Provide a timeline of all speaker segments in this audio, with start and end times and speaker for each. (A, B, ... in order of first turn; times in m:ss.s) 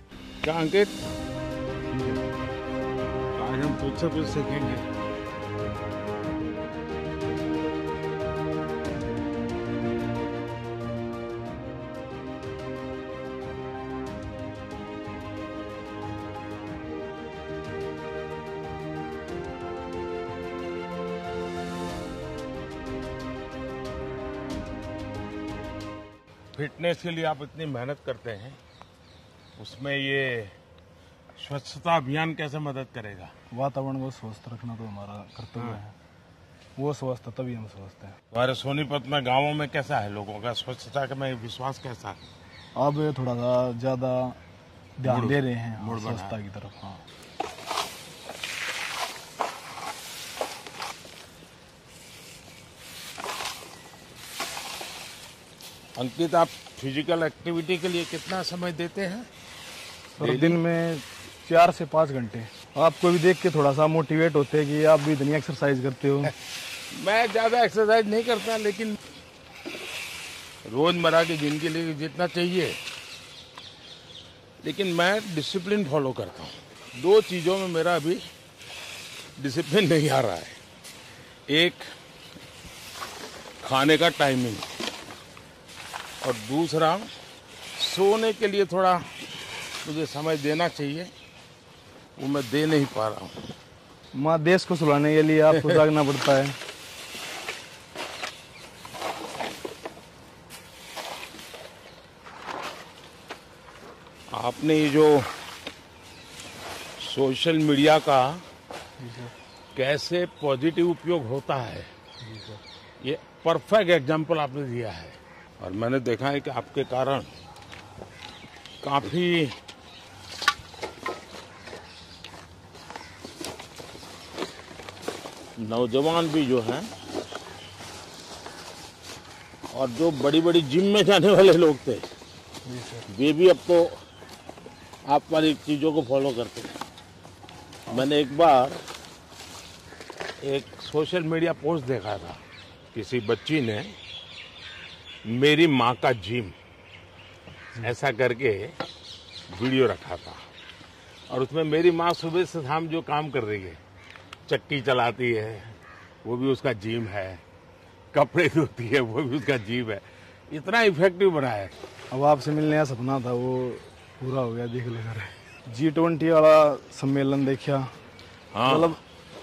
0:00.4-0:01.0 A
0:03.4-0:04.9 A
0:26.6-0:28.6 A
0:29.6-0:30.6 A
0:31.4-0:33.3 A
0:33.5-0:36.0 B
0:36.8-0:38.2 B
0:38.3-0:42.3 A
0:42.8-0:44.4 B
0:45.0-0:47.0 B
0:45.0-0:46.3 A
0:56.0-0:59.3 A
1:00.2-1:06.3 B
1:00.2-1:00.6 A
1:06.9-1:09.0 A
1:10.7-1:12.8 A
1:14.6-1:18.2 A
1:19.4-1:20.6 A
1:21.5-1:21.8 A
1:23.6-1:24.6 A
1:26.2-1:27.1 A
1:27.8-1:29.1 A
1:29.8-1:31.1 A
1:32.2-1:33.4 A
1:34.1-1:36.6 B
1:44.3-1:45.3 A
1:47.0-1:48.4 A
1:49.0-1:49.3 B
1:49.8-1:51.9 A
1:52.2-1:52.6 B
1:53.0-1:57.3 A
1:58.8-1:59.6 A
2:05.6-2:06.9 A
2:09.7-2:12.0 A
2:12.6-2:13.1 B
2:13.1-2:14.0 A
2:15.0-2:16.7 A
2:17.9-2:18.8 A
2:20.4-2:22.4 A
2:22.9-2:24.0 A
2:25.2-2:26.5 A
2:27.8-2:28.8 A
2:29.5-2:30.4 A
2:31.3-2:33.8 A
2:34.5-2:37.4 A
2:38.1-2:41.7 A
2:42.1-2:47.9 B
2:48.5-2:49.0 A
2:48.6-2:49.0 B